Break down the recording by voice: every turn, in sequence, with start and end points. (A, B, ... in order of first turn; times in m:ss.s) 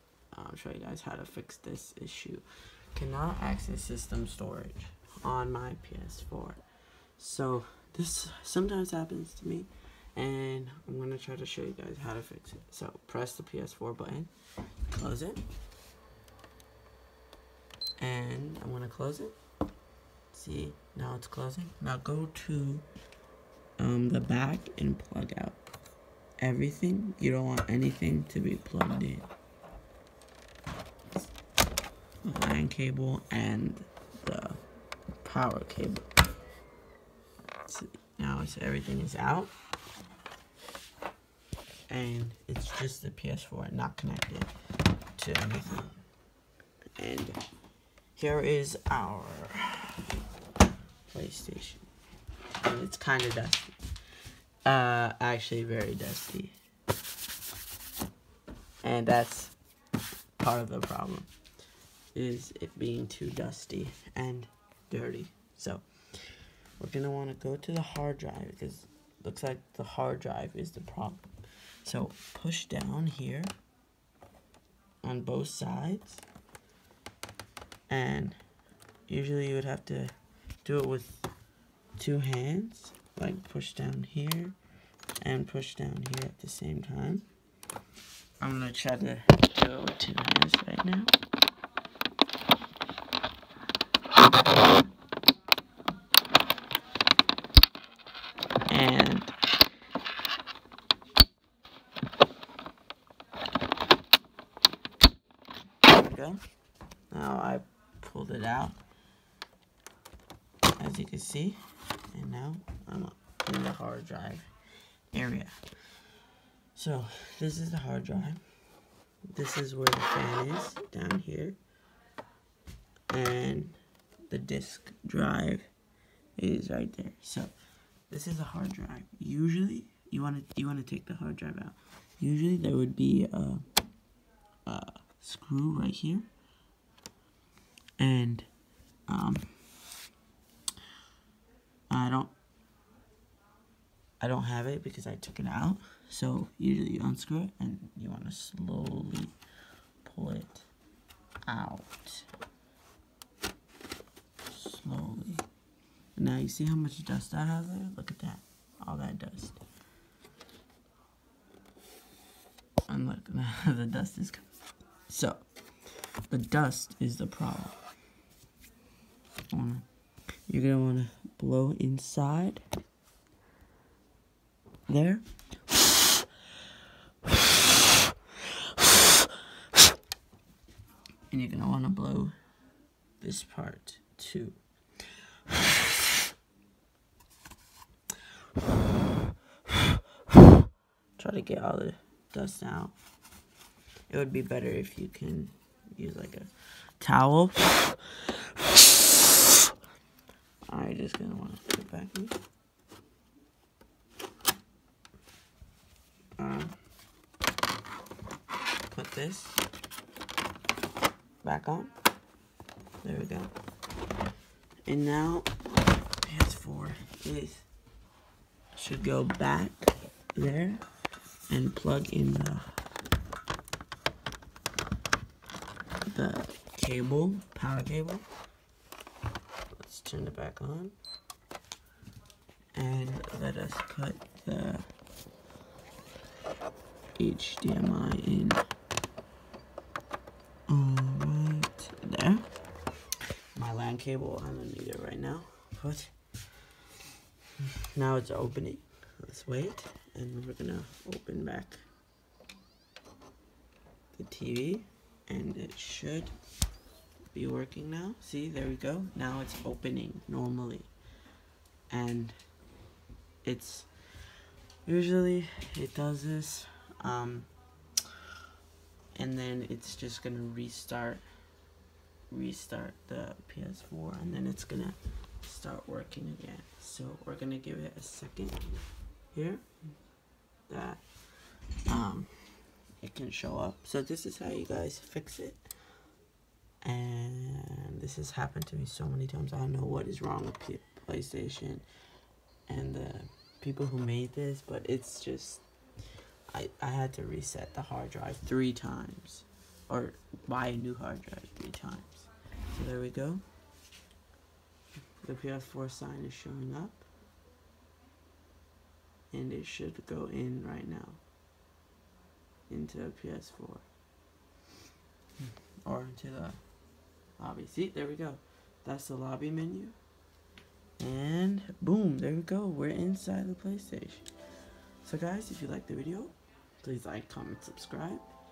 0:00.3-0:06.6 A
0:07.2-0:14.3 A
0:14.9-0:15.4 A
0:18.0-0:19.4 A
0:20.3-0:22.8 A
0:23.8-0:25.6 A
0:26.4-0:29.3 A
0:32.2-0:34.6 A
0:35.2-0:36.0 A
0:37.7-0:39.5 A
0:41.9-0:44.5 A
0:45.2-0:46.0 A
0:47.0-0:47.4 A
0:48.2-0:50.0 A
0:51.1-0:51.9 A
0:52.6-0:53.8 A
0:54.6-0:56.5 A
0:58.8-0:59.6 A
1:00.4-1:01.3 A
1:02.1-1:11.3 A
1:11.8-1:13.5 A
1:15.0-1:16.2 A
1:17.9-1:18.4 A
1:19.1-1:21.3 A
1:22.0-1:24.6 A
1:25.2-1:27.3 A
1:28.4-1:31.1 A
1:38.7-1:39.3 A
1:45.9-1:46.4 A
1:47.1-1:48.8 A
1:50.8-1:54.5 A
1:55.1-1:55.5 A
1:56.8-1:58.4 A
1:59.3-2:01.6 A
2:03.1-2:03.8 A
2:04.3-2:05.7 A
2:06.4-2:07.5 A
2:08.1-2:13.6 A
2:14.7-2:16.3 A
2:18.0-2:18.5 A
2:19.1-2:19.5 A
2:21.9-2:22.3 A
2:24.2-2:29.4 A
2:30.0-2:30.7 A
2:31.5-2:32.3 A
2:34.5-2:35.4 A
2:36.2-2:39.6 A
2:42.9-2:44.4 A
2:45.1-2:45.4 A
2:46.3-2:47.8 A
2:49.5-2:49.9 A
2:50.5-2:52.6 A
2:54.9-2:55.2 A
2:58.7-2:59.1 A
3:01.3-3:02.3 A
3:03.2-3:05.6 A
3:09.7-3:10.4 A
3:11.2-3:12.9 A
3:14.1-3:19.6 A
3:20.7-3:22.4 A
3:26.4-3:26.8 A
3:28.9-3:29.6 A
3:31.4-3:31.9 A
3:33.0-3:33.5 A
3:34.9-3:35.5 A
3:36.2-3:37.7 A
3:38.8-3:40.8 A
3:41.5-3:42.7 A
3:46.1-3:48.3 A
3:49.8-3:51.0 A
3:52.7-3:54.9 A
3:57.2-3:58.6 A
4:00.7-4:02.4 A
4:03.5-4:06.1 A
4:07.6-4:11.8 A
4:14.1-4:16.3 A
4:17.3-4:20.9 A
4:21.9-4:22.4 A
4:23.4-4:23.9 A
4:24.8-4:27.5 A
4:29.2-4:31.2 A
4:32.3-4:38.8 A
4:39.3-4:39.6 A
4:40.7-4:41.0 A
4:41.9-4:45.6 A
4:46.8-4:51.8 A
4:52.7-4:55.6 A
4:56.5-5:03.4 A
5:05.2-5:07.0 A
5:09.3-5:11.2 A
5:12.7-5:13.9 A
5:15.4-5:16.6 A
5:17.4-5:20.0 A
5:21.0-5:24.3 A
5:25.0-5:28.3 A